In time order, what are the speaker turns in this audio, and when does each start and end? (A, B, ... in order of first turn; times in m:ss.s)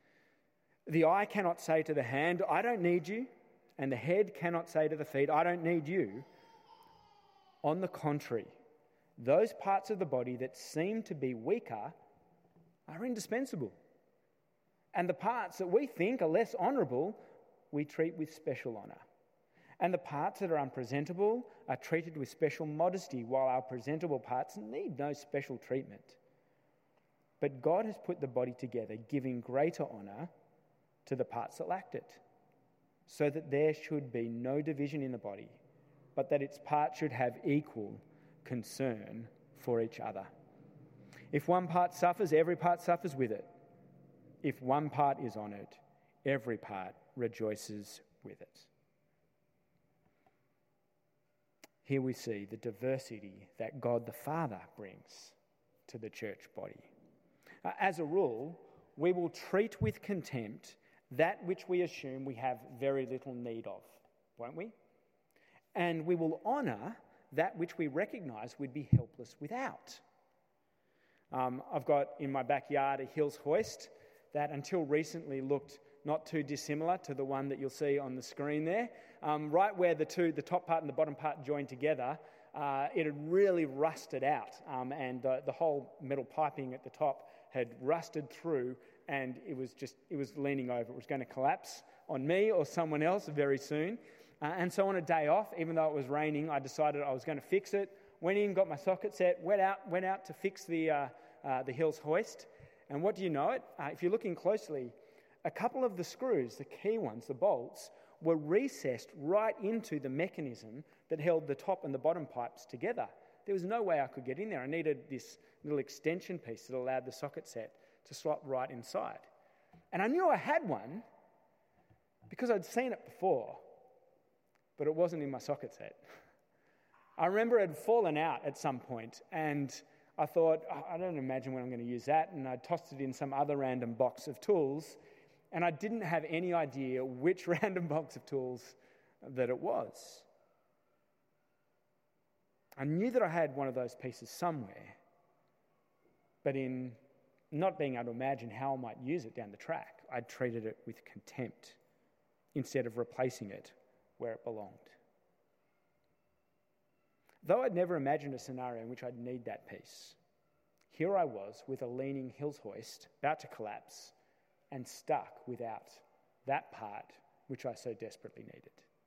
0:00.9-0:06.2 A
0:07.6-0:08.5 A
0:09.2-0:12.0 A
0:12.9-0:13.8 A
0:14.9-0:17.2 A
0:17.7-0:19.0 A
0:19.8-0:26.2 A
0:27.4-0:30.3 A
0:31.1-0:32.2 A
0:33.1-0:35.6 A
0:36.2-0:40.3 A
0:41.3-0:43.5 A
0:44.4-0:48.7 A
0:51.8-0:55.4 A
0:55.9-0:56.9 A
0:57.6-1:04.8 A
1:05.8-1:10.0 A
1:11.3-1:59.3 A
1:59.9-2:01.0 A
2:02.3-2:03.7 A
2:04.8-2:06.0 A
2:07.2-2:15.0 A
2:15.5-2:20.3 A
2:22.8-2:25.0 A
2:26.4-2:27.0 A
2:27.5-2:31.8 A
2:32.5-2:35.0 A
2:37.4-2:40.2 A
2:40.9-2:44.2 A
2:44.7-2:48.9 A